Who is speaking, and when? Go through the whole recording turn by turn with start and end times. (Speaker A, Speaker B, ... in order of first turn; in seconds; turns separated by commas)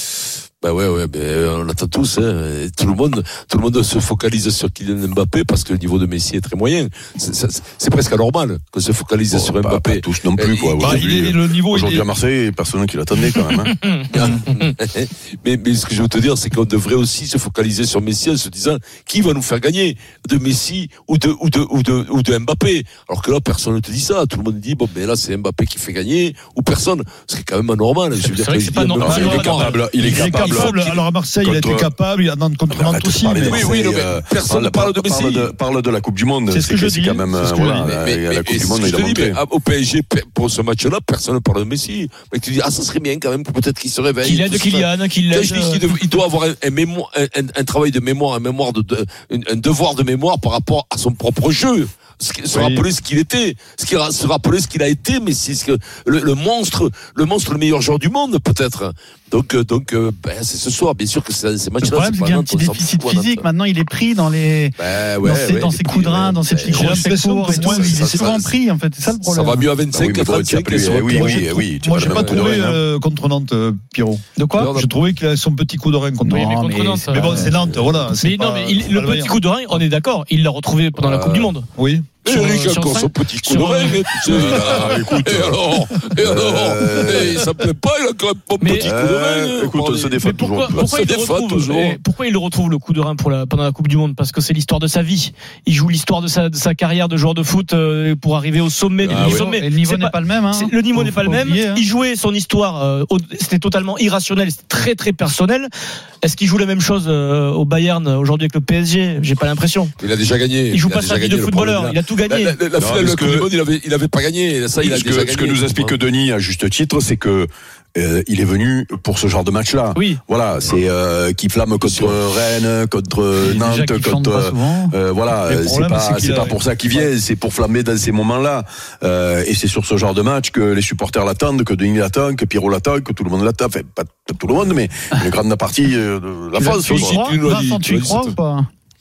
Speaker A: 0.6-11.1, Speaker B: 9.3-13.7, Speaker C: 10.8-12.1, Speaker A: 14.1-29.8, Speaker D: 28.1-30.8, Speaker B: 29.0-30.9, Speaker C: 30.0-33.6, Speaker B: 31.4-31.9, Speaker B: 32.7-39.4, Speaker A: 33.5-35.5, Speaker C: 36.5-37.9, Speaker A: 37.8-63.5, Speaker D: 44.2-45.9, Speaker C: 52.5-52.9, Speaker E: 61.8-69.7, Speaker A: 64.8-68.5, Speaker C: 66.7-68.3, Speaker A: 69.1-71.5, Speaker B: 69.9-72.8, Speaker C: 71.0-76.5, Speaker A: 72.0-72.7, Speaker E: 74.3-74.7, Speaker A: 74.6-74.9, Speaker D: 76.2-77.3, Speaker E: 76.3-77.5, Speaker C: 77.0-79.3, Speaker D: 78.2-81.7, Speaker A: 81.0-81.5, Speaker C: 81.7-82.2, Speaker A: 82.2-92.0, Speaker D: 82.2-84.8, Speaker B: 84.2-87.5, Speaker D: 88.6-88.9, Speaker B: 88.8-91.0, Speaker D: 90.2-105.7, Speaker B: 99.0-99.4, Speaker E: 99.1-101.8, Speaker D: 106.2-109.9, Speaker A: 110.0-116.0, Speaker D: 110.7-112.6, Speaker B: 112.8-113.5, Speaker B: 114.8-137.2, Speaker D: 119.9-120.2, Speaker A: 121.8-122.2, Speaker E: 123.4-124.9, Speaker C: 125.4-127.1, Speaker E: 136.5-138.7, Speaker A: 136.8-138.3